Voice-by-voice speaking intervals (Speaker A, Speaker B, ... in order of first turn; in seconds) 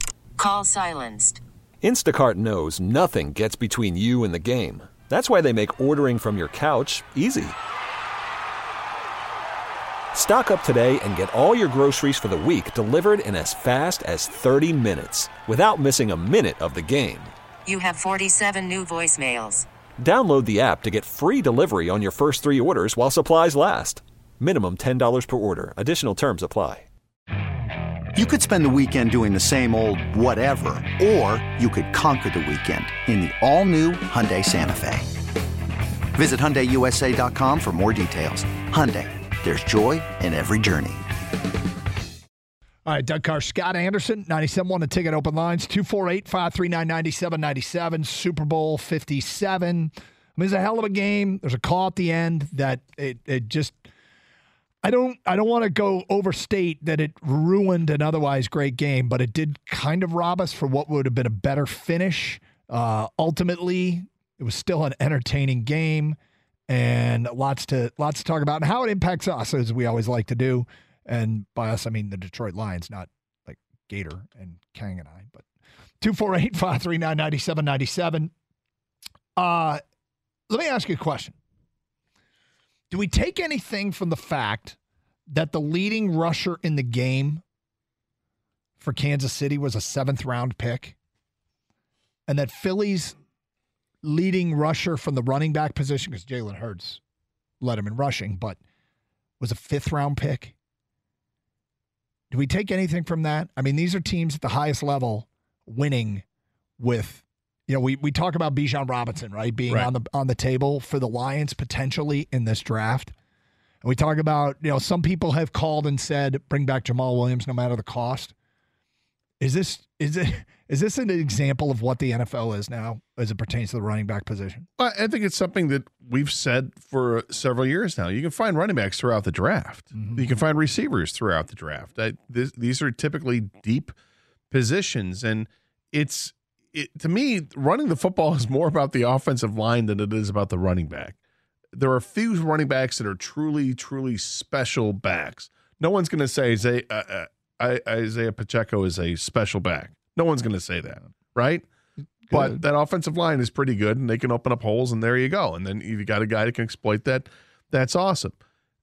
Speaker A: 0.4-1.4, 17.6-19.6
Speaker B: 1.8-7.5, 10.1-17.3, 20.0-26.9
Speaker C: 28.1-35.1, 36.1-41.0
Speaker D: 42.9-53.9, 54.8-66.2, 66.7-75.4, 76.0-78.3, 79.3-79.8, 80.5-81.3, 82.9-84.8, 85.3-87.4, 88.8-91.0, 92.3-93.1, 94.0-97.0, 97.6-98.6, 99.4-100.5, 102.3-106.2, 106.8-113.1, 113.8-118.3, 119.4-124.7, 129.9-130.2, 152.3-152.6
Speaker E: 124.8-133.9, 134.5-141.2, 141.7-151.7, 152.3-158.3